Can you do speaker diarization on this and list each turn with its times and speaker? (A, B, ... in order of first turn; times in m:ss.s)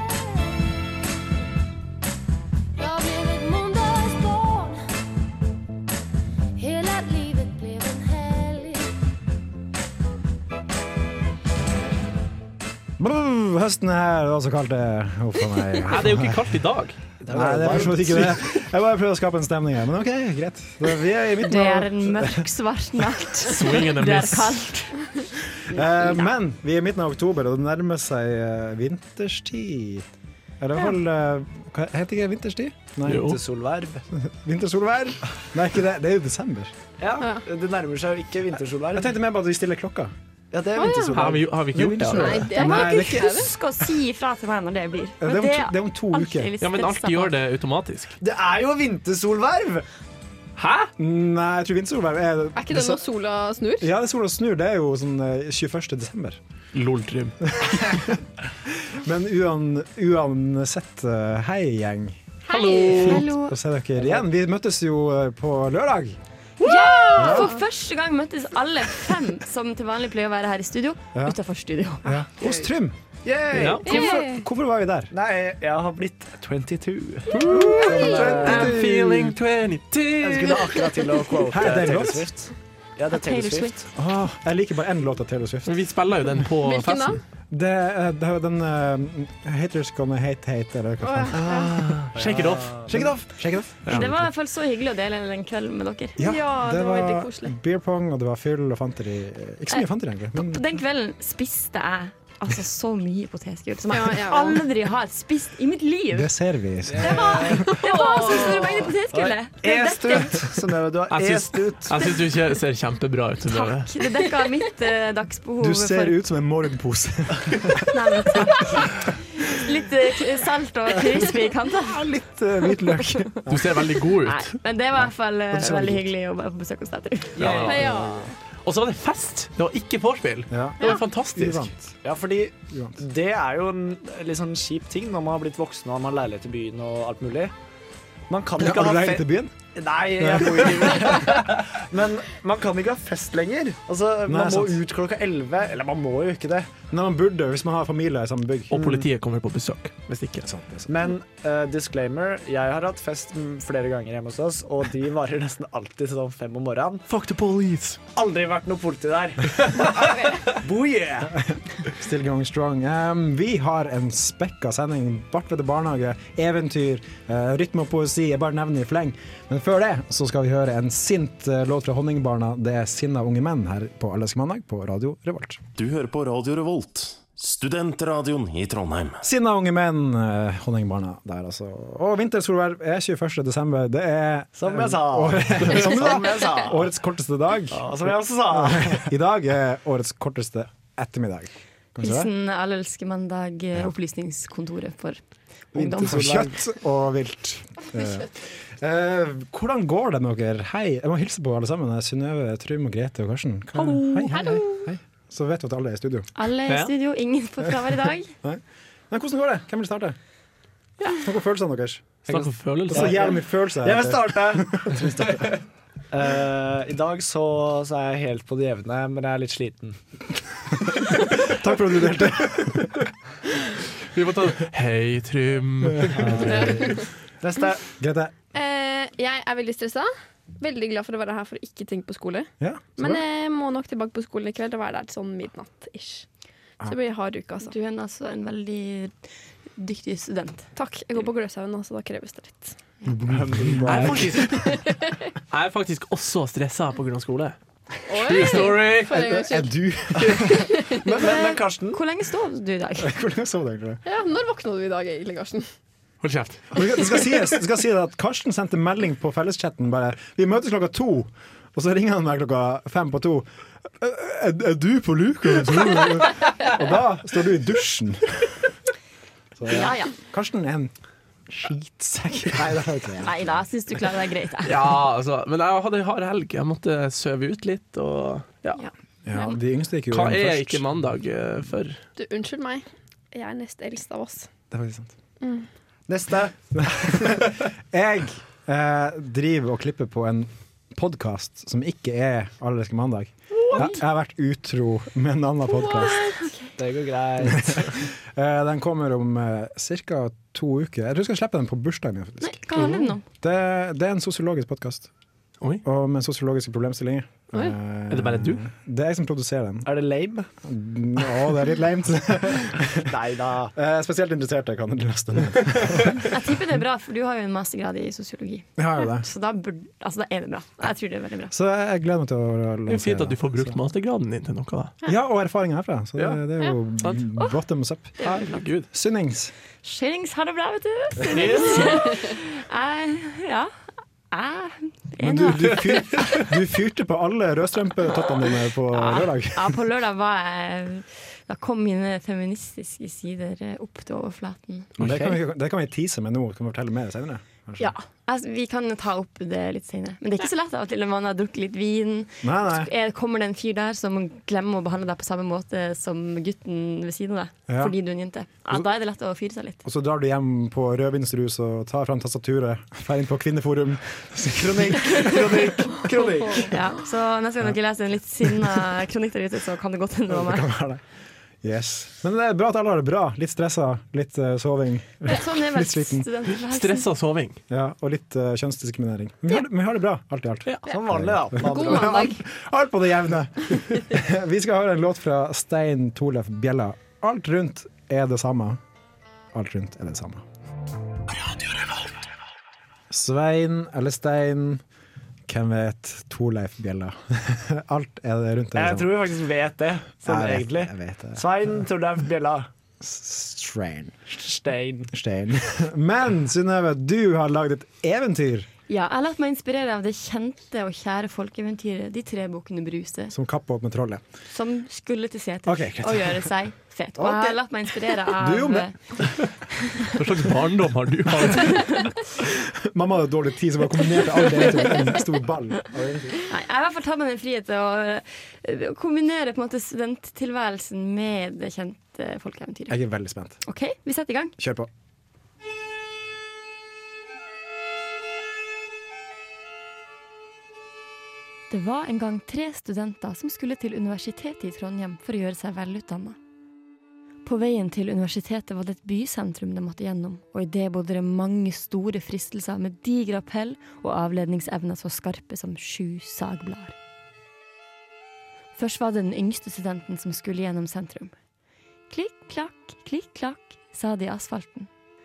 0:02.8-0:04.8 A
0:06.6-0:08.9 A
0:13.0-0:16.5 B
0:15.9-0:17.0 C
0:17.2-0:18.4 D
0:17.3-0:22.5 B
0:21.4-0:26.2 E
0:23.4-0:24.7 C
0:25.7-0:30.1 B
0:30.6-0:33.4 B
0:33.1-0:33.4 C
0:33.2-0:34.0 D
0:34.1-0:36.7 B
0:37.0-0:39.1 D
0:38.9-0:40.1 B
0:40.5-0:41.6 D
0:40.8-0:41.2 F
0:41.1-0:42.5 C
0:41.7-0:43.9 B
0:42.1-0:43.5 F
0:42.5-0:47.3 E
0:45.2-0:46.5 B
0:46.6-0:48.2 C
0:48.2-0:49.9 D
0:50.6-0:50.9 C
0:51.0-0:53.0 B
0:52.6-0:53.9 F
0:53.8-0:56.4 B
0:56.7-0:57.4 C
0:57.5-1:02.2 B
1:02.5-1:03.3 C
1:02.5-1:03.0 F
1:03.0-1:03.6 E
1:03.1-1:06.2 B
1:06.6-1:12.2 E
1:06.7-1:07.6 F
1:07.2-1:07.5 B
1:12.0-1:13.0 B
1:12.4-1:12.7 F
1:13.2-1:14.1 D
1:13.5-1:14.0 C
1:13.8-1:15.1 B
1:13.9-1:14.4 F
1:15.1-1:19.3 D
1:17.3-1:20.9 C
1:17.4-1:19.3 B
1:20.2-1:23.7 D
1:21.5-1:22.3 B
1:23.1-1:23.9 E
1:24.0-1:25.8 B
1:25.7-1:27.2 C
1:26.6-1:27.2 F
1:27.5-1:31.7 B
1:31.0-1:31.7 F
1:31.5-1:32.9 D
1:32.0-1:33.1 C
1:32.9-1:34.3 B
1:33.9-1:36.2 E
1:36.2-1:40.6 B
1:36.2-1:37.6 F
1:39.7-1:46.3 E
1:43.9-1:44.6 F
1:46.1-1:47.8 B
1:47.0-1:48.5 D
1:47.0-1:50.4 E
1:47.4-1:49.0 F
1:49.1-1:52.2 D
1:51.1-1:53.9 C
1:53.5-1:56.2 E
1:55.6-1:58.6 B
1:57.9-2:02.1 E
2:01.9-2:03.9 B
2:02.9-2:03.3 E
2:03.5-2:04.6 C
2:04.2-2:07.4 E
2:05.0-2:06.1 B
2:07.4-2:08.0 C
2:07.4-2:08.3 D
2:07.6-2:08.3 F
2:08.6-2:11.7 C
2:10.5-2:12.0 B
2:12.0-2:17.5 D
2:12.7-2:13.0 B
2:18.3-2:19.5 B
2:18.3-2:19.2 D
2:19.8-2:26.8 D
2:20.2-2:21.3 B
2:24.3-2:24.8 B
2:26.9-2:28.9 B
2:28.7-2:30.5 C
2:30.4-2:30.9 B
2:30.9-2:37.1 D
2:37.1-2:38.0 C
2:38.1-2:41.4 D
2:39.9-2:40.4 F
2:41.9-2:55.6 B
2:55.8-2:59.2 G
2:59.2-3:07.9 B
3:04.6-3:06.9 D
3:07.7-3:09.1 D
3:08.5-3:12.3 B
3:12.0-3:15.2 E
3:15.7-3:16.4 E
3:15.8-3:26.3 B
3:15.8-3:16.5 D
3:24.3-3:24.9 F
3:26.4-3:28.3 E
3:28.4-3:30.2 B
3:31.0-3:32.3 B
3:32.3-3:33.3 C
3:32.3-3:35.6 D
3:32.9-3:35.5 B
3:36.1-3:40.0 D
3:41.4-3:43.1 B
3:44.1-3:46.3 C
3:45.9-3:46.9 B
3:46.2-3:47.8 D
3:46.7-3:46.9 F
3:47.9-3:48.3 B
3:48.5-3:56.3 F
3:52.6-3:53.2 B
3:56.8-3:57.7 F
3:57.6-4:00.7 E
4:00.8-4:02.8 F
4:03.1-4:04.7 B
4:03.3-4:04.4 D
4:03.8-4:04.8 C
4:04.5-4:05.2 F
4:05.5-4:07.6 C
4:08.1-4:09.8 F
4:08.1-4:09.4 C
4:09.1-4:10.8 B
4:11.0-4:12.0 D
4:11.2-4:13.1 E
4:13.0-4:14.0 B
4:14.0-4:15.7 F
4:16.2-4:17.5 C
4:16.7-4:23.5 B
4:24.0-4:28.6 B
4:29.6-4:30.9 B
4:29.7-4:30.1 E
4:31.5-4:33.4 B
4:33.2-4:34.8 E
4:34.7-4:38.8 C
4:39.3-4:40.9 B
4:40.1-4:42.0 C
4:42.2-4:44.5 F
4:44.7-4:45.1 B
4:46.1-4:46.6 D
4:46.7-4:56.2 B
4:56.0-4:56.6 E
4:56.0-4:56.4 F
4:56.8-4:58.1 D
4:57.4-5:05.1 B
5:02.4-5:03.2 E
5:05.8-5:09.9 B
5:08.1-5:08.6 C
5:09.8-5:10.5 D
5:10.6-5:13.2 B
5:13.1-5:13.7 D
5:13.7-5:16.3 B
5:16.2-5:21.5 E
5:18.8-5:19.3 B
5:21.5-5:23.8 B
5:22.9-5:24.9 C
5:25.0-5:28.4 B
5:28.2-5:28.9 C
5:28.9-5:29.5 B
5:29.8-5:33.7 E
5:31.3-5:32.0 C
5:34.3-5:36.4 E
5:35.2-5:39.8 B
5:38.9-5:44.9 E
5:45.0-5:47.9 B
5:45.0-5:45.3 C
5:47.8-5:59.8 E
5:52.4-5:52.9 B
5:57.7-5:57.9 B
5:59.8-6:06.0 B
6:04.6-6:06.7 D
6:06.6-6:10.7 E
6:10.3-6:11.0 B
6:11.6-6:16.3 B
6:15.2-6:17.1 E
6:16.7-6:17.6 C
6:17.7-6:28.8 B
6:20.9-6:22.3 D
6:21.6-6:22.4 F
6:29.5-6:30.4 B
6:33.1-6:34.8 B
6:35.5-6:39.2 B
6:38.8-6:42.7 D
6:40.2-6:41.4 B
6:43.0-6:44.2 B
6:44.3-6:45.1 D
6:45.1-6:48.7 B
6:48.9-6:53.3 E
6:53.3-6:54.2 B
6:54.5-6:59.2 E
6:55.7-6:56.5 B
6:57.2-6:57.6 B
6:58.3-6:59.3 B
7:00.1-7:02.0 C
7:02.4-7:06.4 B
7:06.5-7:13.0 E
7:12.9-7:13.6 B
7:13.6-7:14.6 E
7:14.6-7:14.9 B
7:21.7-7:26.4 E
7:27.4-7:37.0 E
7:38.8-7:41.3 E
7:42.1-7:44.9 E